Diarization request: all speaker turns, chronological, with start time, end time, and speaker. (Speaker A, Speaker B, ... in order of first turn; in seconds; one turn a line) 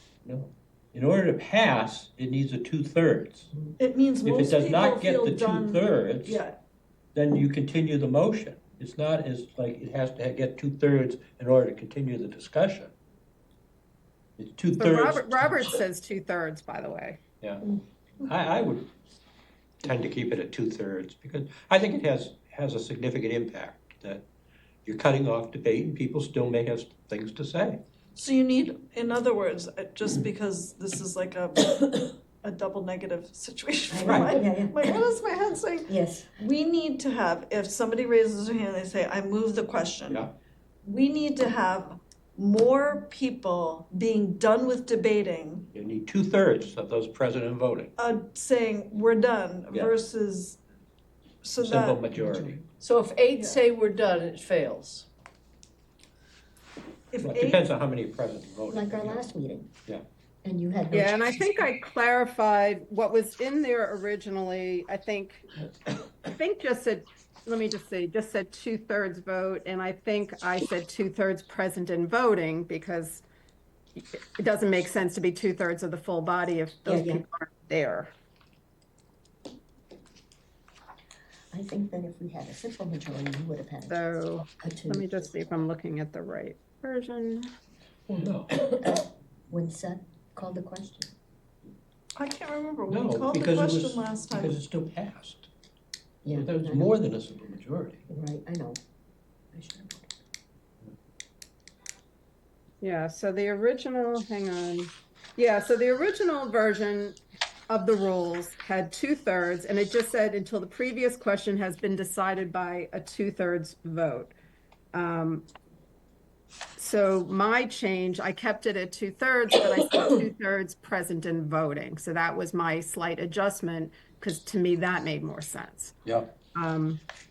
Speaker A: 0.2-3.5
Speaker B: 3.8-6.6
Speaker A: 4.2-6.4
Speaker A: 7.1-12.9
Speaker A: 14.4-15.7
Speaker C: 14.8-17.2
Speaker A: 17.4-18.9
Speaker A: 19.8-24.3
Speaker A: 24.8-27.8
Speaker B: 28.1-40.2
Speaker D: 33.9-35.1
Speaker A: 34.0-34.4
Speaker D: 35.9-36.3
Speaker B: 40.8-45.7
Speaker A: 45.7-47.9
Speaker B: 48.0-50.6
Speaker B: 51.4-52.0
Speaker A: 51.6-52.6
Speaker D: 52.1-52.7
Speaker E: 52.8-55.1
Speaker B: 57.1-57.6
Speaker A: 57.2-59.2
Speaker D: 58.7-59.7
Speaker D: 60.4-61.4
Speaker C: 60.9-65.5
Speaker C: 66.2-73.2
Speaker C: 74.0-78.1
Speaker D: 76.8-77.2
Speaker D: 81.5-85.3
Speaker C: 83.9-87.5
Speaker A: 88.1-88.7
Speaker D: 88.7-91.1
Speaker B: 92.1-94.6
Speaker A: 92.9-95.5
Speaker D: 96.2-97.0
Speaker A: 96.3-98.0
Speaker D: 98.1-98.8
Speaker D: 99.5-100.1
Speaker C: 102.8-114.3
Speaker C: 114.9-115.5
Speaker C: 116.8-125.9
Speaker C: 126.5-127.0